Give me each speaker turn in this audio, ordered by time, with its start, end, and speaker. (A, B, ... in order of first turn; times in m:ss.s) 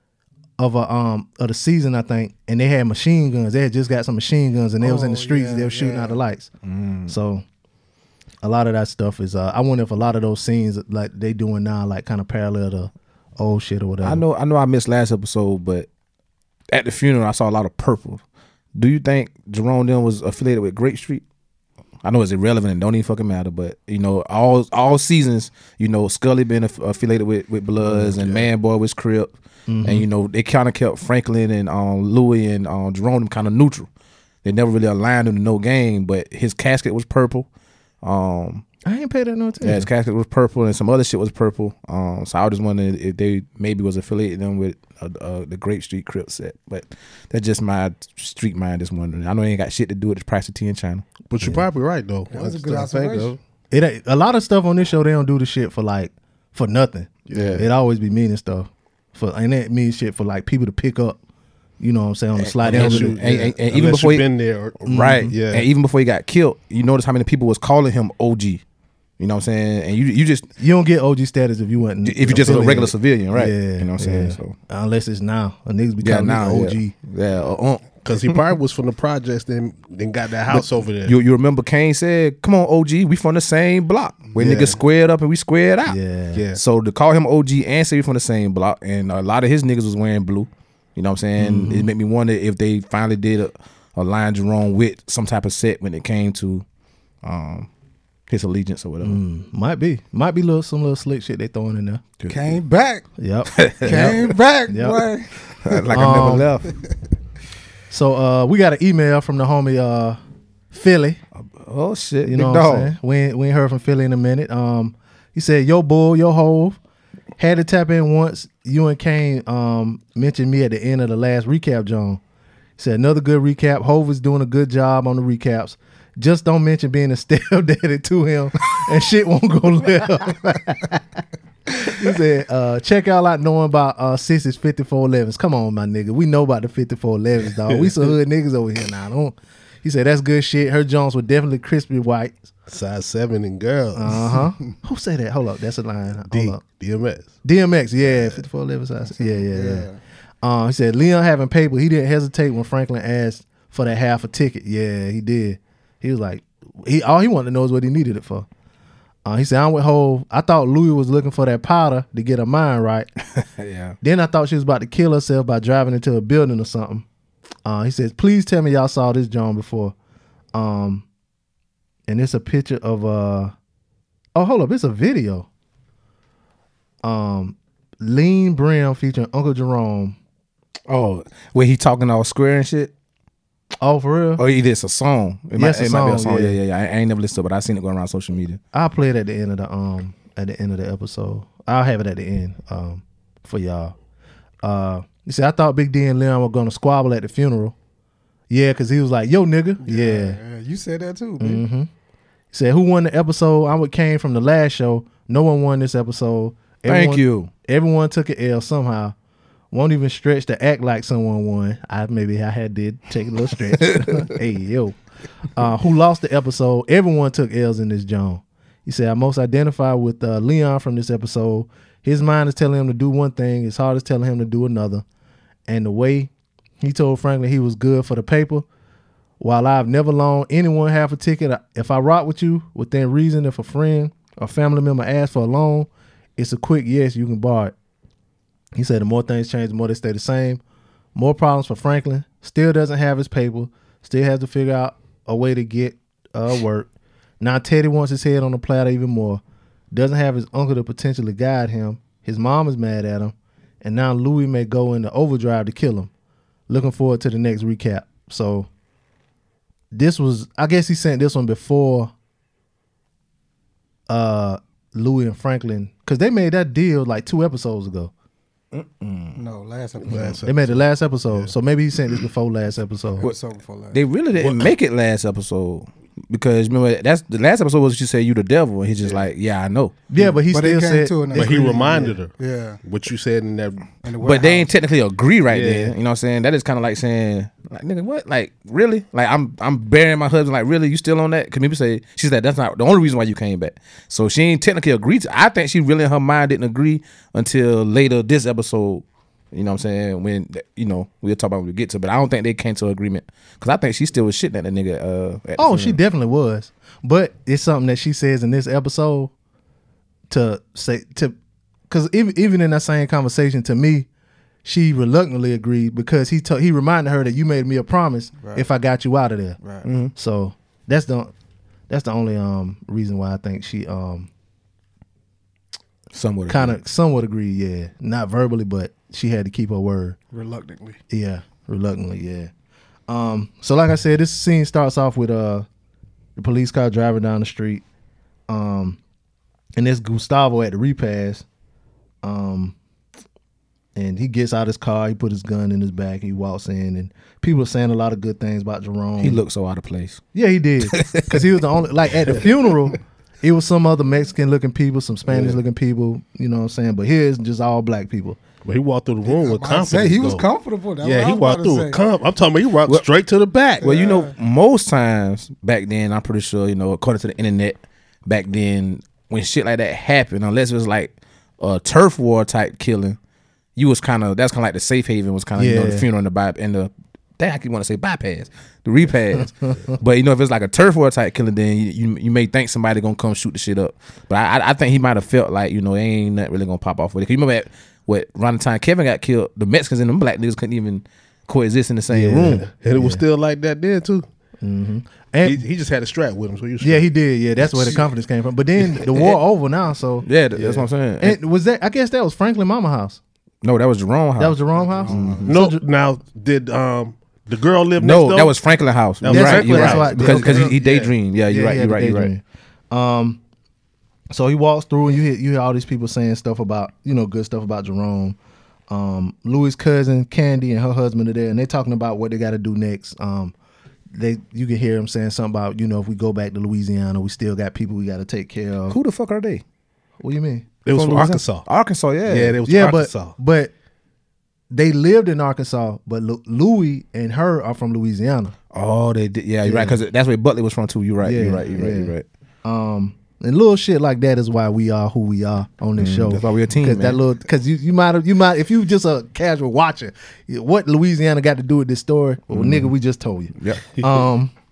0:00.6-0:06.5 A
0:04.8-0:06.2 B
0:06.6-0:07.2 C
0:07.1-0:07.4 A
0:08.4-0:14.2 A
0:14.0-0:15.9 C
0:16.7-0:18.2 C
0:18.8-0:21.2 C
0:22.0-0:29.3 C
0:27.9-0:28.5 D
0:29.7-0:30.1 A
0:29.8-0:33.9 C
0:34.4-0:37.5 C
0:38.0-0:38.6 C
0:38.8-0:39.9 A
0:39.6-0:51.0 C
0:51.3-0:53.4 D
0:52.3-0:53.4 B
0:53.7-1:01.2 A
0:57.3-0:57.7 D
1:01.8-1:03.2 A
1:02.4-1:04.3 C
1:02.7-1:05.7 D
1:04.9-1:05.3 A
1:04.9-1:08.6 C
1:09.2-1:10.5 C
1:10.6-1:16.9 A
1:12.0-1:14.6 C
1:16.0-1:18.0 C
1:18.0-1:21.2 D
1:20.5-1:26.0 C
1:24.4-1:24.8 D
1:25.9-1:26.4 A
1:26.3-1:26.6 D
1:26.5-1:36.6 C
1:31.4-1:31.9 A
1:37.2-1:37.7 C
1:38.3-1:39.2 C
1:39.0-1:42.0 A
1:42.2-1:42.6 C
1:42.3-1:43.1 B
1:43.2-1:44.2 A
1:43.5-1:44.2 C
1:43.8-1:45.3 B
1:44.7-1:45.1 A
1:45.6-1:46.7 C
1:45.9-1:46.5 A
1:47.9-1:50.2 A
1:50.7-1:51.2 A
1:51.6-1:52.9 C
1:52.2-1:56.8 A
1:57.4-2:02.2 A
2:02.8-2:11.2 A
2:11.8-2:22.4 A
2:17.7-2:18.1 D
2:22.7-2:24.4 D
2:23.9-2:26.6 A
2:26.3-2:27.3 D
2:27.4-2:29.9 A
2:29.5-2:30.0 B
2:30.4-2:38.5 A
2:39.2-2:43.1 A
2:43.4-2:44.0 C
2:44.0-2:47.1 A
2:47.6-2:50.0 A
2:50.5-2:51.0 A
2:52.1-2:53.5 A
2:54.4-2:55.5 A
2:57.0-3:00.2 A
3:00.9-3:02.9 C
3:03.8-3:04.4 A
3:04.4-3:08.6 C
3:05.6-3:06.6 A
3:08.7-3:13.9 A
3:14.6-3:17.8 A
3:18.5-3:20.4 A
3:19.8-3:21.6 B
3:21.4-3:21.9 A
3:22.5-3:29.2 A
3:26.9-3:27.5 C
3:29.7-3:35.0 A
3:35.5-3:45.0 A
3:45.7-3:48.7 A
3:49.4-3:57.7 A
3:58.8-4:00.6 A
4:01.2-4:06.9 A
4:07.4-4:09.4 A
4:09.9-4:16.1 A
4:16.7-4:18.7 A
4:19.9-4:22.1 A
4:24.1-4:28.1 A
4:28.7-4:29.4 C
4:29.4-4:30.5 B
4:30.0-4:30.8 D
4:30.4-4:33.2 A
4:33.2-4:34.0 B
4:33.9-4:39.9 C
4:34.4-4:34.7 D
4:40.1-4:42.2 A
4:40.5-4:42.8 B
4:41.3-4:43.9 D
4:44.0-4:44.7 B
4:44.2-5:06.0 C
4:45.5-4:45.9 D
5:05.6-5:09.3 A
5:10.3-5:11.4 A
5:11.9-5:14.1 A
5:14.6-5:19.6 A
5:18.4-5:18.7 B
5:19.6-5:19.9 B
5:19.8-5:20.1 C
5:20.2-5:21.3 A
5:21.9-5:24.3 A
5:26.1-5:26.8 C
5:26.5-5:30.2 A
5:30.3-5:31.0 B
5:31.1-5:32.5 A
5:33.1-5:35.7 A
5:36.4-5:37.8 A
5:38.5-5:39.0 A
5:39.8-5:41.4 A
5:42.2-5:42.8 A
5:44.0-5:49.4 A
5:49.2-5:50.2 C
5:50.3-5:58.4 A
5:50.9-5:51.4 C
5:55.3-5:55.6 D
5:58.6-6:00.4 D
5:59.2-6:02.0 B
6:01.0-6:03.9 D
6:03.8-6:04.3 B
6:03.8-6:13.2 C
6:13.8-6:32.7 C
6:15.6-6:16.1 A
6:32.1-6:33.2 A
6:32.7-6:34.2 D
6:34.6-6:35.6 A
6:35.4-6:37.1 D
6:36.8-6:40.3 A
6:37.6-6:38.1 D
6:40.2-6:41.4 C
6:40.6-6:40.9 D
6:41.2-6:43.2 A
6:43.6-6:45.5 C
6:44.4-6:45.8 A
6:44.8-6:45.5 B
6:45.4-6:48.6 D
6:48.0-6:52.3 C
6:49.2-6:51.1 D
6:49.3-6:50.8 A
6:51.5-6:53.4 A
6:54.3-6:58.4 A
6:58.9-7:03.5 A
7:04.1-7:09.0 A
7:08.9-7:09.6 C
7:10.2-7:10.7 A
7:10.8-7:11.7 D
7:10.9-7:12.6 C
7:12.3-7:13.4 D
7:12.6-7:13.7 A
7:14.7-7:18.6 A
7:18.7-7:22.2 C
7:19.6-7:20.0 A
7:21.2-7:34.5 A
7:26.0-7:27.2 C
7:32.5-7:32.9 C
7:33.6-7:33.8 C